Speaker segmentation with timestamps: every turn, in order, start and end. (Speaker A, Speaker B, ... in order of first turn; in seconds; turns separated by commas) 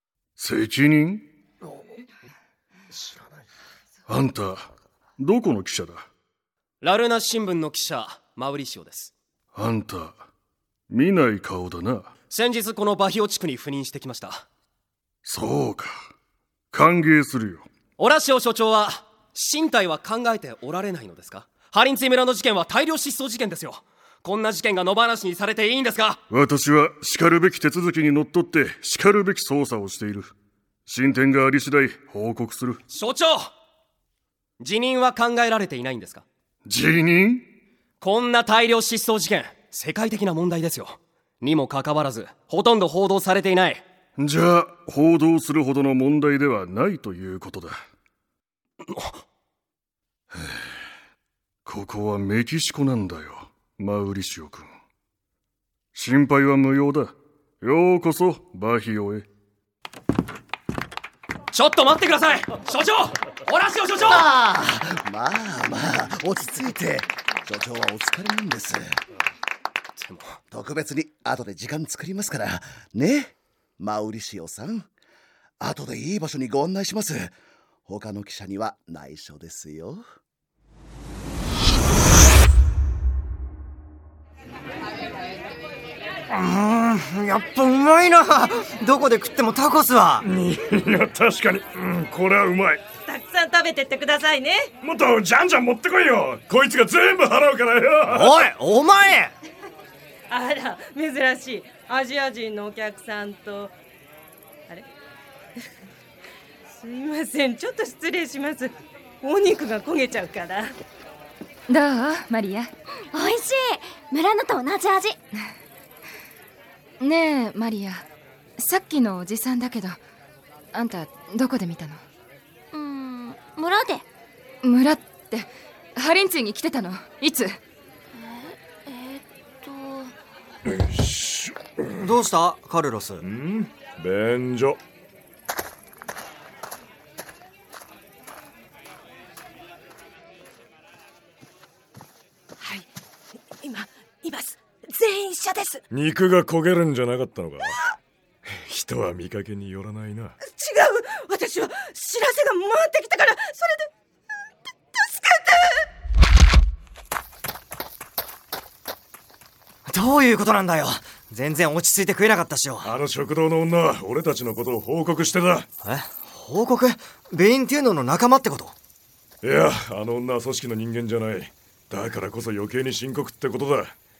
Speaker A: 0.4-1.3, Speaker A: 4.1-6.1, Speaker B: 6.8-9.1, Speaker A: 9.5-10.2, Speaker A: 10.9-12.1, Speaker B: 12.3-14.4, Speaker A: 15.2-16.0, Speaker A: 16.7-17.7, Speaker B: 18.0-26.2, Speaker A: 26.3-30.3, Speaker A: 30.9-32.8, Speaker B: 32.9-33.5, Speaker B: 34.6-36.2, Speaker A: 36.6-37.5, Speaker B: 38.0-43.8, Speaker A: 44.2-47.8, Speaker B: 48.9-49.1, Speaker A: 51.6-54.7, Speaker A: 55.9-59.2, Speaker B: 61.5-64.2, Speaker C: 63.9-69.0, Speaker B: 70.0-70.3, Speaker C: 70.5-74.9, Speaker C: 75.6-77.3, Speaker C: 77.8-80.0, Speaker D: 86.3-90.2, Speaker E: 90.2-92.8, Speaker F: 93.0-94.7, Speaker E: 94.8-98.4, Speaker D: 98.0-99.3, Speaker F: 100.3-103.7, Speaker F: 106.7-110.8, Speaker G: 111.7-112.7, Speaker H: 113.1-115.2, Speaker G: 117.0-118.0, Speaker G: 118.6-120.0, Speaker G: 120.7-122.0, Speaker H: 122.7-124.0, Speaker G: 124.6-127.6, Speaker H: 128.2-130.1, Speaker E: 130.7-132.1, Speaker D: 131.9-133.2, Speaker E: 133.2-134.8, Speaker F: 143.6-145.8, Speaker E: 145.9-147.8, Speaker E: 148.4-150.3, Speaker F: 150.4-153.9, Speaker F: 154.9-155.8, Speaker D: 159.8-162.9, Speaker E: 162.8-165.7, Speaker D: 165.8-168.8, Speaker E: 169.4-173.9